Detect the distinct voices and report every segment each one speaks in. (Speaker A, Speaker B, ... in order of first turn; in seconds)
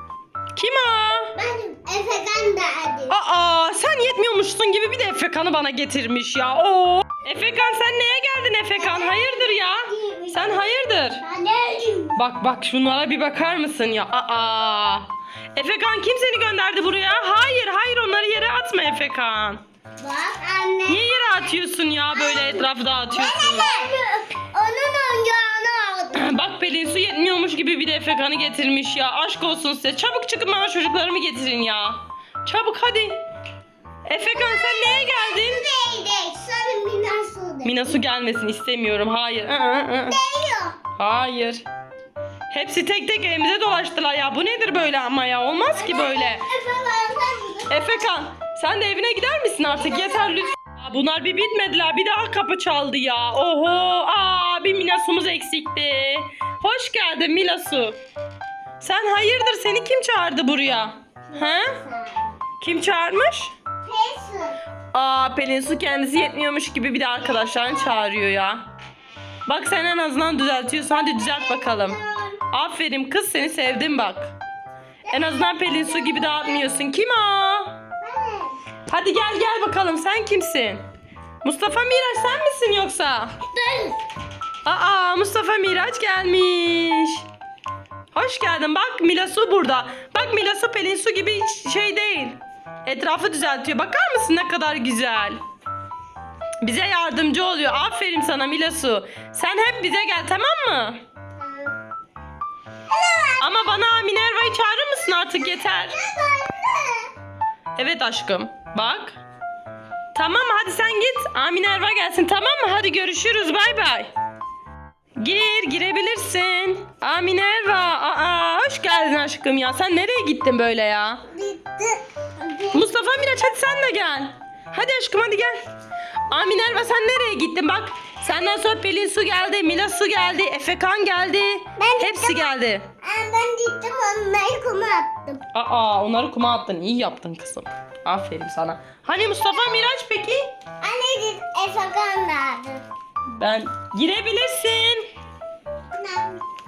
Speaker A: 0.5-1.3, 3.1-11.2, 12.2-19.6, 20.9-23.7, 26.1-33.2, 34.0-35.6, 37.6-40.2, 41.0-41.6, 42.5-46.5, 47.7-58.0, 58.8-61.7, 62.6-63.5, 64.9-68.7, 69.5-72.0, 72.5-74.3, 75.1-77.8, 78.9-80.8, 81.4-83.3, 84.6-87.2, 88.1-95.4, 96.6-101.0, 103.4-106.0, 107.8-109.2, 110.1-114.1, 115.2-121.2, 122.7-125.6, 126.3-132.9, 135.5-140.5, 143.4-145.1
Speaker B: 1.4-3.2, 8.8-12.2, 20.0-21.6, 22.1-26.3, 34.3-38.0, 40.1-40.8, 45.7-47.8, 50.0-50.4, 61.3-62.4, 63.8-64.6, 71.2-72.4, 75.0-76.7, 78.0-78.6, 83.5-84.0, 101.4-101.8, 102.9-103.8, 105.8-107.1, 121.3-122.9, 131.8-135.4, 139.1-139.8, 140.8-142.8, 145.9-146.4